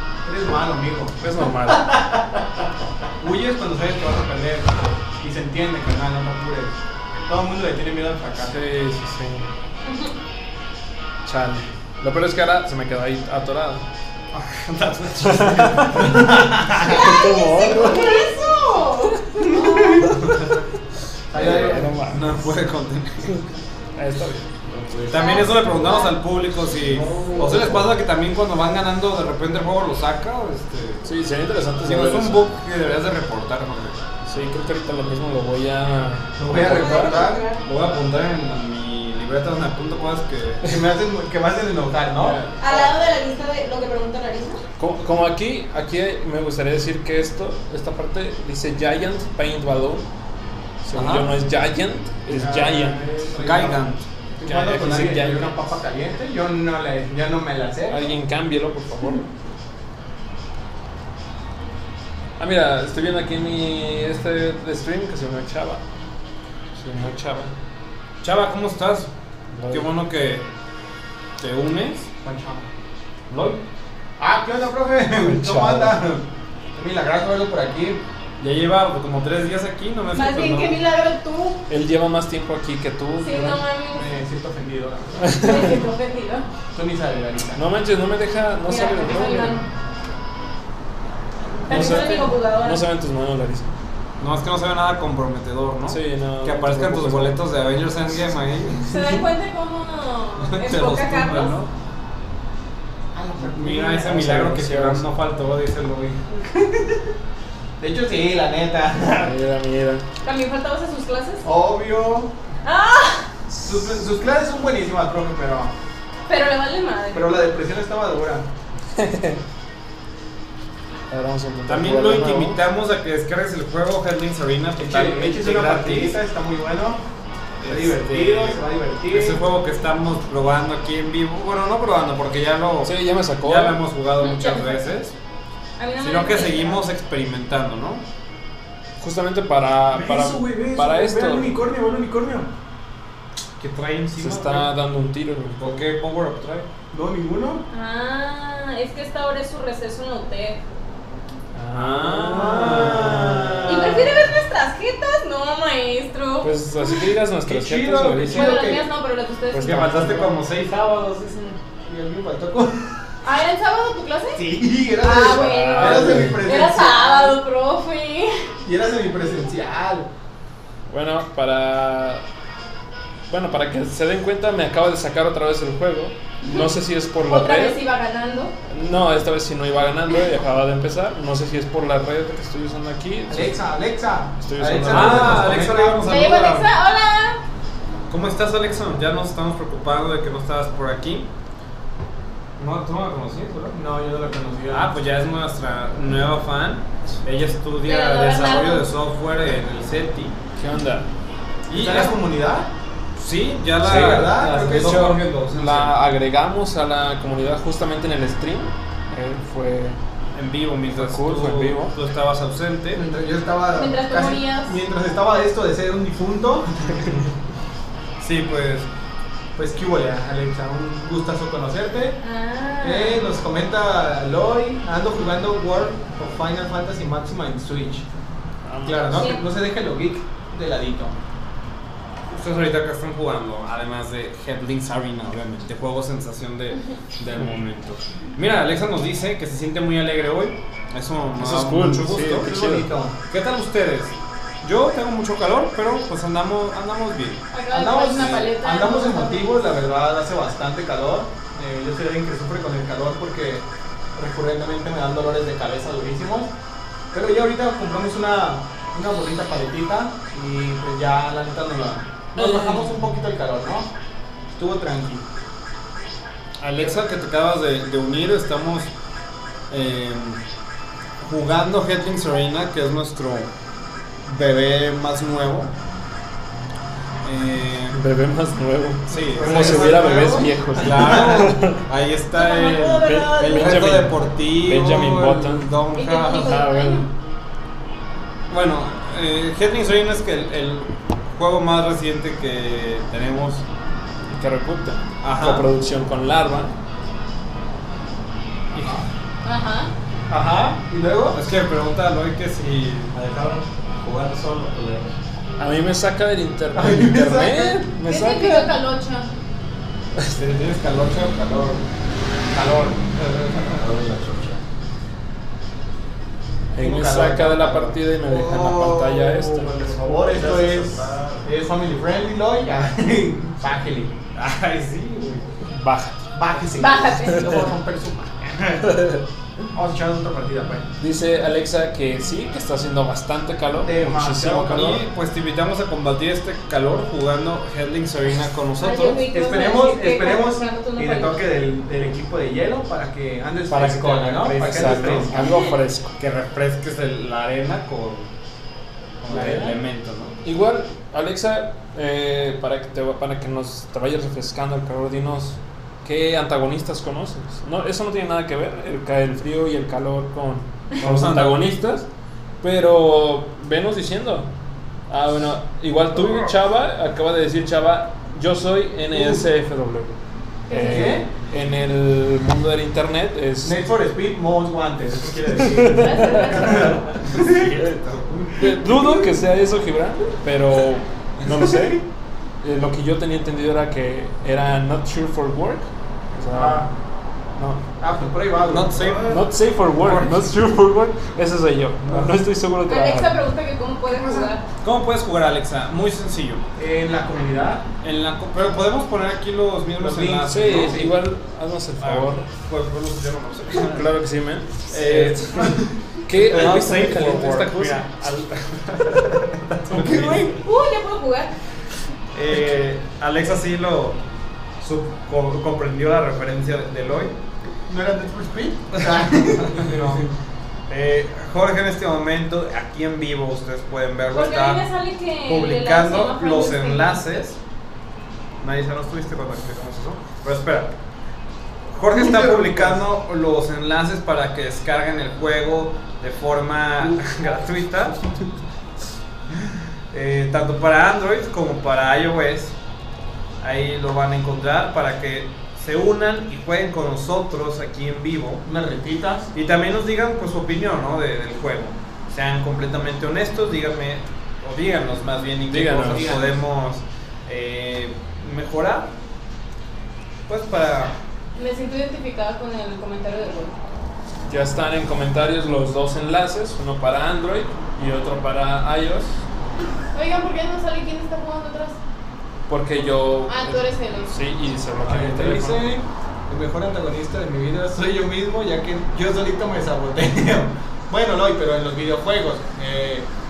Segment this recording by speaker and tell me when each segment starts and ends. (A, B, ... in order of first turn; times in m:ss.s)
0:00.2-0:01.2 A
0:01.2-0:02.0 B
0:03.2-0:08.6 A
0:08.4-0:09.5 B
0:11.2-0:13.8 B
0:14.3-0:15.4 C
0:15.1-0:17.2 A
0:15.3-0:16.3 B
0:16.9-0:18.2 B
0:17.0-0:20.1 D
0:19.5-0:20.1 A
0:20.0-0:20.6 C
0:21.3-0:21.9 A
0:21.3-0:22.4 B
0:21.4-0:21.8 D
0:22.1-0:23.4 C
0:24.0-0:24.5 B
0:24.7-0:25.4 E
0:25.1-0:31.0 C
0:25.1-0:26.2 D
0:27.0-0:27.8 E
0:27.0-0:27.8 A
0:31.0-0:32.5 B
0:31.8-0:34.0 C
0:34.3-0:37.3 B
0:36.4-0:37.4 A
0:36.6-0:37.6 D
0:37.6-0:40.6 C
0:40.6-0:42.4 A
0:42.2-0:42.8 B
0:42.6-0:44.6 D
0:44.8-0:50.1 B
0:50.8-0:53.3 B
0:50.9-0:51.3 C
0:52.3-0:53.8 A
0:53.4-0:54.1 C
0:54.4-0:58.2 A
0:54.4-0:55.7 B
0:57.9-0:59.3 B
1:02.4-1:05.8 B
1:06.8-1:07.5 B
1:08.2-1:09.1 C
1:09.5-1:09.9 B
1:09.7-1:10.5 C
1:11.4-1:12.1 C
1:12.2-1:12.7 A
1:13.3-1:13.6 C
1:14.2-1:16.2 A
1:15.1-1:16.0 B
1:16.8-1:18.0 A
1:18.4-1:20.8 C
1:20.1-1:21.6 D
1:21.7-1:23.6 B
1:23.2-1:24.1 D
1:23.3-1:25.4 A
1:25.2-1:25.8 B
1:25.4-1:26.5 D
1:26.7-1:27.6 A
1:27.6-1:29.6 B
1:28.6-1:29.7 D
1:31.6-1:32.8 D
1:31.7-1:33.7 B
1:34.2-1:39.0 C
1:35.9-1:37.4 B
1:38.9-1:41.6 D
1:40.4-1:41.7 C
1:43.1-1:44.3 A
1:43.4-1:46.5 C
1:43.9-1:45.2 B
1:47.8-1:49.3 A
1:49.2-1:50.1 B
1:50.2-1:51.4 D
1:51.4-1:52.3 A
1:52.6-1:53.3 D
1:53.6-1:55.7 A
1:56.3-1:57.3 D
1:57.1-1:58.5 A
1:59.0-1:59.4 B
2:01.1-2:02.6 B
2:01.7-2:06.2 C
2:04.8-2:07.0 A
2:07.6-2:08.2 C
2:07.6-2:09.4 A
2:07.8-2:08.6 B
2:09.1-2:15.1 C
2:12.8-2:13.8 B
2:14.2-2:15.0 D
2:15.8-2:16.9 D
2:16.0-2:18.0 C
2:19.0-2:21.6 B
2:19.9-2:22.5 A
2:23.6-2:24.7 C
2:24.2-2:25.8 B
2:25.6-2:26.7 C
2:26.9-2:27.6 A
2:27.7-2:30.6 D
2:31.5-2:33.9 B
2:31.7-2:34.1 C
2:33.7-2:37.1 D
2:36.4-2:38.7 B
2:37.5-2:38.6 C
2:38.2-2:40.2 D
2:38.3-2:38.8 A
2:39.5-2:40.3 B
2:39.5-2:41.6 C
2:41.9-2:43.0 A
2:43.2-2:44.4 D
2:44.3-2:47.4 A
2:45.0-2:48.4 D
2:45.3-2:46.5 B
2:48.6-2:50.1 A
2:50.9-2:52.2 B
2:53.3-2:57.8 B
2:57.2-2:58.5 D
2:58.7-3:03.6 B
3:03.3-3:06.1 A
3:04.4-3:05.8 B
3:04.9-3:06.7 C
3:06.0-3:07.4 D
3:08.1-3:11.3 C
3:12.6-3:13.8 C
3:13.7-3:14.9 A
3:14.7-3:20.4 C
3:17.8-3:18.9 D
3:20.6-3:21.1 B
3:21.7-3:22.2 C
3:21.7-3:22.7 A
3:23.2-3:26.0 C
3:23.8-3:25.2 A
3:23.8-3:30.0 B
3:30.3-3:33.0 C
3:30.9-3:31.9 B
3:32.9-3:37.2 A
3:33.7-3:34.8 D
3:38.2-3:38.9 C
3:39.6-3:42.2 A
3:42.2-3:43.3 D
3:42.8-3:48.1 A
3:48.6-3:49.3 B
3:48.8-3:51.2 A
3:49.1-3:49.4 D
3:52.3-4:02.5 C
4:01.4-4:02.9 B
4:02.4-4:03.2 A
4:03.3-4:07.4 C
4:07.5-4:09.6 D
4:07.7-4:16.5 A
4:08.2-4:08.4 C
4:17.1-4:23.9 A
4:22.4-4:22.9 B
4:24.6-4:25.2 A
4:26.6-4:28.9 C
4:29.7-4:30.4 C
4:31.2-4:33.5 C
4:34.2-4:35.7 C
4:37.2-4:38.0 C
4:37.9-4:41.8 B
4:39.1-4:40.0 C
4:39.2-4:41.4 A
4:40.8-4:46.6 C
4:42.3-4:43.6 D
4:43.0-4:45.8 B
4:45.9-4:47.1 D
4:46.4-4:47.1 B
4:48.5-4:53.6 C
4:54.3-4:56.7 B
4:55.2-4:55.7 C
4:58.7-4:59.0 C
4:58.8-4:59.1 A
4:59.4-4:59.9 D
5:00.3-5:01.4 A
5:01.3-5:03.1 C
5:03.1-5:05.1 E
5:05.6-5:08.7 B
5:06.7-5:07.9 A
5:08.0-5:09.3 D
5:10.4-5:11.8 C
5:12.5-5:13.1 A
5:13.7-5:14.6 E
5:16.7-5:19.9 B
5:16.8-5:18.0 A
5:18.3-5:19.4 C
5:19.7-5:21.4 E
5:20.0-5:24.1 A
5:24.3-5:25.5 C
5:25.7-5:26.2 B
5:26.3-5:29.1 A
5:26.8-5:27.6 D
5:28.9-5:29.2 B
5:29.7-5:30.9 A
5:31.0-5:35.0 B
5:33.8-5:34.8 A
5:34.5-5:39.2 C
5:38.8-5:41.4 D
5:39.3-5:45.4 A
5:43.7-5:45.4 C
5:44.3-5:46.2 B
5:45.4-5:45.8 D
5:46.2-5:48.3 C
5:49.2-5:50.4 C
5:49.2-5:49.8 A
5:50.4-6:02.1 B
6:01.0-6:01.8 C
6:02.6-6:04.5 B
6:05.1-6:10.2 B
6:06.2-6:06.5 C
6:09.1-6:09.4 A
6:10.7-6:11.3 D
6:10.7-6:13.9 B
6:10.8-6:11.3 A
6:13.6-6:17.7 A
6:15.7-6:22.0 B
6:16.0-6:17.1 D
6:18.6-6:19.2 A
6:21.5-6:22.0 A
6:22.6-6:26.9 B
6:26.5-6:26.9 A
6:27.6-6:27.9 B
6:28.0-6:29.4 A
6:28.6-6:30.5 C
6:29.3-6:33.4 B
6:32.0-6:32.3 A
6:32.8-6:34.6 D
6:34.1-6:34.5 A
6:34.8-6:36.6 C
6:36.8-6:37.9 A
6:38.0-6:41.1 C
6:40.0-6:41.2 A
6:40.5-6:42.5 B
6:42.0-6:44.1 C
6:43.8-6:48.2 B
6:44.9-6:45.7 C
6:45.5-6:45.9 A
6:46.3-6:50.6 C
6:49.9-6:50.5 A
6:50.2-6:51.5 D
6:52.3-6:54.2 C
6:54.8-6:57.4 C
6:57.9-7:00.3 A
6:59.1-7:00.2 C
7:00.9-7:04.9 C
7:04.3-7:07.4 D
7:05.4-7:07.6 C
7:08.6-7:10.9 C
7:11.9-7:18.2 C
7:12.2-7:13.0 A
7:17.0-7:17.4 A
7:20.1-7:22.8 C
7:23.6-7:28.6 C
7:28.6-7:29.5 A
7:29.5-7:39.1 C
7:35.7-7:36.4 B
7:36.1-7:36.4 A
7:40.5-7:41.2 C
7:41.6-7:43.7 D
7:44.5-7:49.4 B
7:50.1-7:52.0 D
7:52.7-7:56.0 B
7:53.4-7:54.4 D
7:55.0-8:03.3 A